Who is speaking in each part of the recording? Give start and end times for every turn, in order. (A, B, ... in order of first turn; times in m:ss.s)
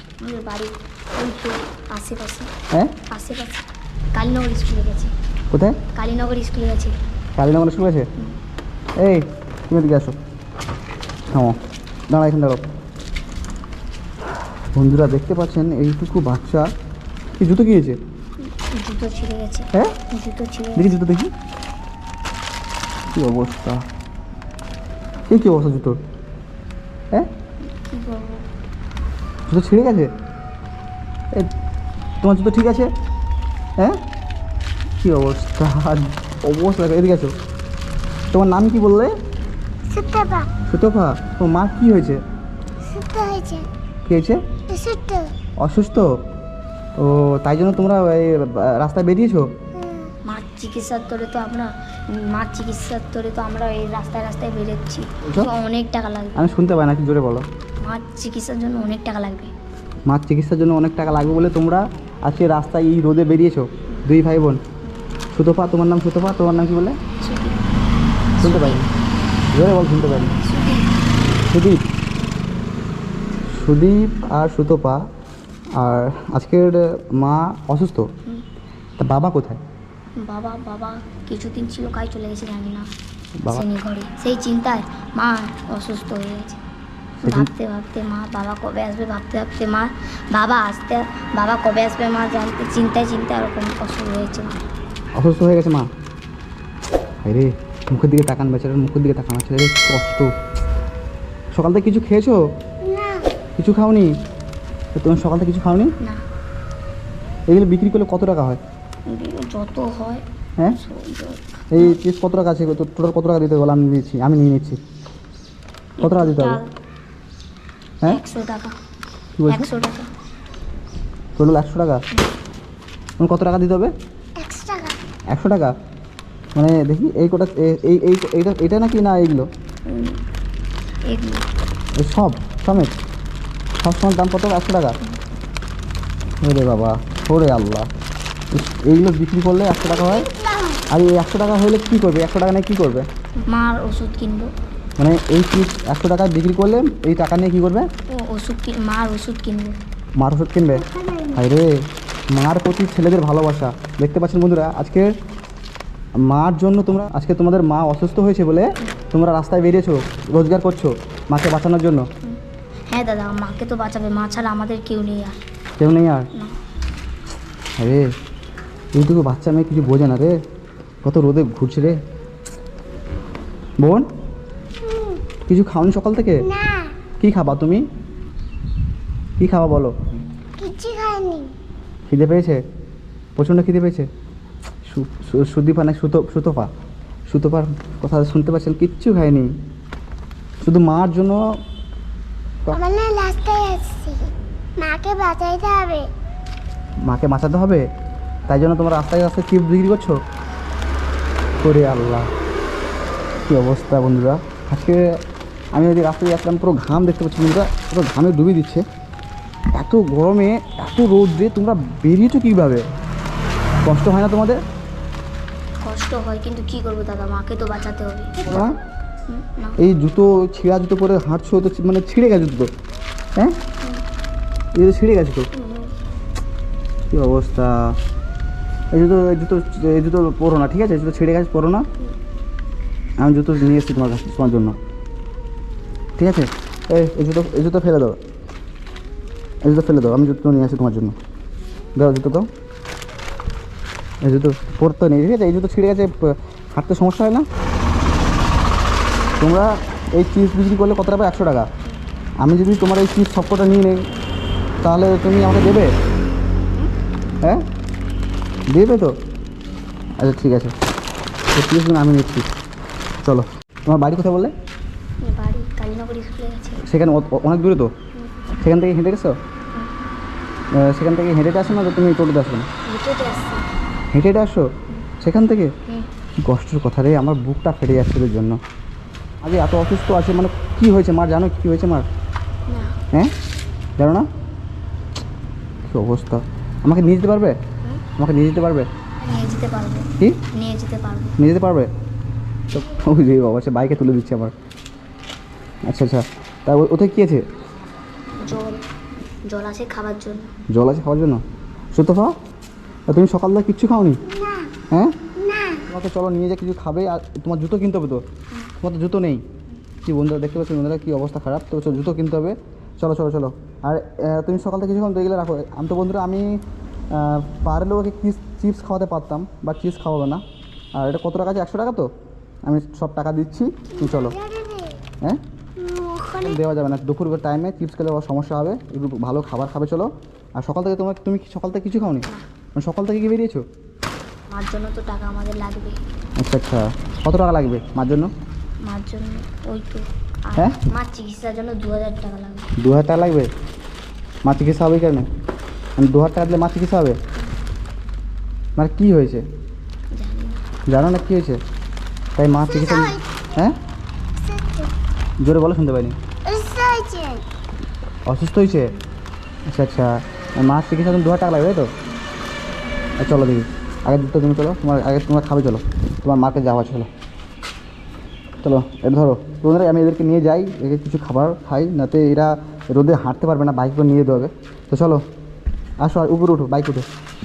0:00.2-0:02.5 A
0:03.1-0:03.6 A
0:04.1-0:05.1 A
0:05.5-0:05.8 B
0:06.0-0:07.0 A
0:07.4-0:08.1 B
0:09.0-0:10.2 B
0:11.3-0:11.6 B
0:12.1-0:12.6 B
0:14.7-0:16.7 B
0:17.4-0:18.0 B
0:18.4-0:21.0 A
0:20.8-0:21.3 B
0:23.1-0:23.8 B
0:25.3-0:26.0 B
0:27.8-0:28.4 A
0:29.5-0:30.1 B
0:32.2-0:32.9 B
0:35.0-0:37.3 B
0:38.3-0:39.1 B
0:39.9-0:40.5 C
0:40.7-0:42.2 B
0:42.9-0:43.7 C
0:44.0-0:44.4 B
0:44.7-0:45.3 C
0:45.6-0:46.1 B
0:47.0-0:49.5 B
0:49.8-0:50.1 C
0:50.2-0:56.4 A
0:55.2-0:55.5 B
0:56.4-0:57.5 B
0:57.8-0:59.5 A
1:00.1-1:04.6 B
1:05.3-1:07.0 B
1:07.2-1:07.6 A
1:08.4-1:08.8 A
1:08.4-1:08.8 B
1:09.5-1:10.3 B
1:10.2-1:11.0 A
1:11.5-1:11.8 B
1:13.5-1:15.0 B
1:15.8-1:18.1 B
1:19.0-1:19.6 B
1:20.2-1:22.9 A
1:23.4-1:23.6 B
1:23.5-1:26.6 A
1:27.2-1:34.6 A
1:27.2-1:27.5 B
1:35.2-1:35.9 B
1:37.2-1:40.3 B
1:41.5-1:42.4 B
1:42.8-1:43.3 C
1:43.6-1:44.1 B
1:45.0-1:45.9 B
1:47.5-1:48.6 B
1:49.1-1:52.0 A
1:51.7-1:54.8 B
1:56.0-1:56.7 A
1:56.0-1:56.6 B
1:58.0-1:58.8 A
1:59.4-1:59.7 B
1:59.5-2:00.1 A
2:01.4-2:02.0 B
2:03.2-2:03.9 B
2:04.4-2:05.0 C
2:05.3-2:05.7 B
2:06.6-2:09.5 B
2:09.9-2:10.2 A
2:11.1-2:11.5 A
2:12.0-2:13.0 B
2:13.8-2:15.0 B
2:16.4-2:17.9 B
2:18.5-2:20.3 B
2:20.9-2:23.1 B
2:23.5-2:24.5 A
2:25.0-2:27.9 B
2:28.1-2:29.8 A
2:30.2-2:31.7 B
2:31.0-2:31.4 C
2:32.4-2:35.1 B
2:36.3-2:42.1 B
2:42.2-2:45.4 A
2:45.8-2:46.3 B
2:47.8-2:48.1 B
2:48.9-2:50.4 B
2:51.0-2:52.0 B
2:53.8-2:54.0 B
2:54.8-2:55.2 C
2:55.5-2:56.5 B
2:56.4-2:56.9 C
2:57.2-2:57.8 B
2:59.4-2:59.9 B
3:00.6-3:01.5 C
3:02.1-3:02.6 B
3:03.4-3:04.1 B
3:04.9-3:06.7 B
3:07.3-3:09.5 B
3:10.6-3:11.4 B
3:12.7-3:16.1 C
3:17.0-3:17.9 B
3:18.5-3:20.2 B
3:21.6-3:22.3 B
3:23.5-3:25.1 B
3:25.7-3:28.8 B
3:29.8-3:32.8 B
3:33.8-3:34.6 B
3:35.8-3:38.5 A
3:38.4-3:38.8 B
3:39.3-3:39.8 A
3:39.8-3:42.7 B
3:44.8-3:45.5 B
3:45.5-3:45.9 A
3:47.1-3:48.0 B
3:48.9-3:51.9 B
3:53.2-3:54.8 B
3:56.2-3:58.2 B
3:59.6-4:01.2 B
4:02.0-4:02.5 B
4:04.2-4:07.5 B
4:09.4-4:11.7 B
4:12.4-4:14.1 B
4:14.8-4:15.9 B
4:18.7-4:19.1 B
4:20.2-4:20.7 B
4:21.5-4:22.4 B
4:23.2-4:24.5 B
4:25.2-4:26.9 A
4:26.8-4:27.9 B
4:28.6-4:29.4 B
4:30.7-4:32.7 B
4:32.8-4:33.7 A
4:34.1-4:35.7 B
4:36.4-4:38.6 B
4:39.4-4:42.1 B
4:42.7-4:43.0 A
4:44.0-4:44.3 B
4:45.8-4:47.6 B
4:48.2-4:48.9 B
4:49.2-4:51.4 A
4:51.4-4:51.9 B
4:52.7-4:54.5 B
4:55.9-4:57.4 B
4:58.4-4:58.8 A
4:59.5-5:00.5 A
5:00.7-5:01.4 B
5:01.9-5:02.3 B
5:03.1-5:04.2 B
5:04.2-5:04.7 C
5:04.9-5:05.2 B
5:05.4-5:05.9 C
5:05.9-5:08.2 B
5:08.8-5:09.4 B
5:10.0-5:16.6 B
5:17.1-5:20.4 B
5:21.0-5:22.1 B
5:22.7-5:24.4 B
5:23.9-5:25.0 C
5:25.8-5:26.6 C
5:26.4-5:33.6 B
5:34.5-5:36.0 A
5:36.4-5:38.3 B
5:38.8-5:42.7 A
5:42.8-5:43.5 B
5:44.4-5:45.3 B
5:46.0-5:47.2 B
5:48.8-5:49.4 B
5:50.1-5:50.7 A
5:50.9-5:51.6 B
5:52.4-5:53.8 B
5:52.6-5:53.6 C
5:54.4-5:54.9 C
5:55.4-5:56.2 B
5:56.5-5:57.4 C
5:58.3-5:58.9 B
5:59.7-6:01.9 B
6:03.2-6:07.1 B
6:08.6-6:15.2 B
6:16.0-6:17.1 B